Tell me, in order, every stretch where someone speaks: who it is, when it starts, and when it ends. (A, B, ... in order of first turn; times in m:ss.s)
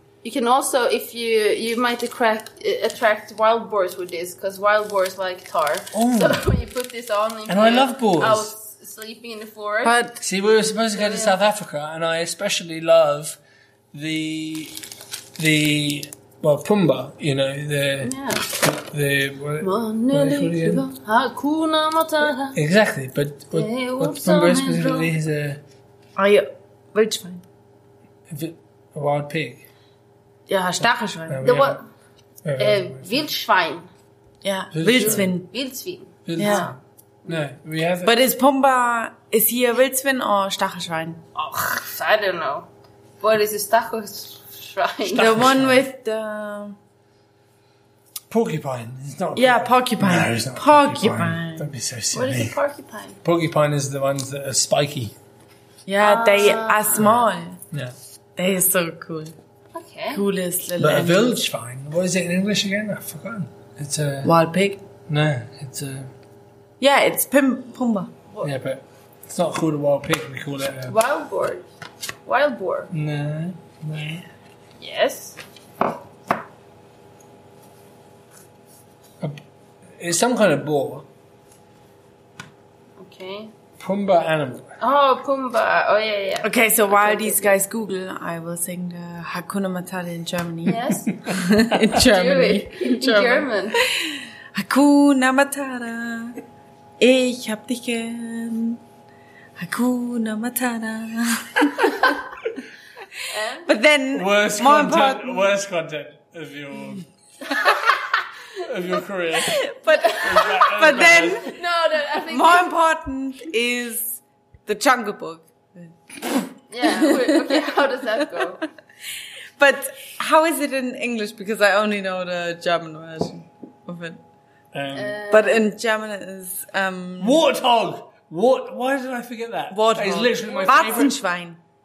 0:00.2-0:10.0 A
0:05.9-0:06.4 B
0:07.5-0:08.5 B
0:09.8-0:10.2 C
0:10.2-0:13.4 B
0:10.9-0:11.4 A
0:13.9-0:14.8 B
0:15.4-0:20.8 B
0:18.0-0:18.5 A
0:19.6-0:22.6 A
0:22.5-0:25.6 B
0:23.5-0:25.1 A
0:26.2-0:27.4 C
0:28.3-0:29.6 B
0:30.5-0:31.4 C
0:31.3-0:31.8 B
0:31.4-0:31.8 A
0:32.4-0:33.2 B
0:32.6-0:33.9 A
0:34.4-0:35.5 C
0:34.7-0:35.3 B
0:34.9-0:36.7 A
0:36.2-0:38.1 B
0:36.4-0:36.6 C
0:38.0-0:41.2 C
0:41.3-0:42.7 A
0:43.2-0:45.5 A
0:45.1-0:46.8 C
0:45.1-0:45.8 B
0:48.3-0:52.6 B
0:49.3-0:51.7 C
0:52.1-0:53.2 A
0:53.2-0:55.1 B
0:55.9-0:57.6 C
0:56.0-0:57.0 A
0:57.0-0:57.9 B
0:58.4-0:59.3 C
0:59.7-1:00.2 A
1:00.1-1:01.4 C
1:00.8-1:04.3 B
1:04.2-1:04.8 C
1:05.1-1:06.1 B
1:06.8-1:08.1 C
1:08.4-1:11.0 B
1:10.9-1:11.6 A
1:12.2-1:12.9 A
1:12.9-1:14.2 B
1:14.8-1:15.4 A
1:20.0-1:21.0 B
1:23.0-1:23.5 A
1:23.8-1:24.7 B
1:24.8-1:27.5 A
1:26.4-1:36.4 C
1:30.6-1:31.2 A
1:31.8-1:33.8 A
1:37.0-1:38.8 C
1:39.6-1:42.2 C
1:43.3-1:43.7 A
1:43.6-1:45.5 C
1:44.1-1:47.0 B
1:48.6-1:51.5 B
1:49.3-1:51.6 C
1:49.9-1:52.7 A
1:52.3-1:57.6 C
1:56.7-1:58.7 A
1:59.6-2:04.2 C
2:04.7-2:05.2 B
2:04.9-2:05.7 A
2:05.3-2:07.4 C
2:07.2-2:11.2 B
2:09.7-2:11.6 C
2:10.4-2:11.1 A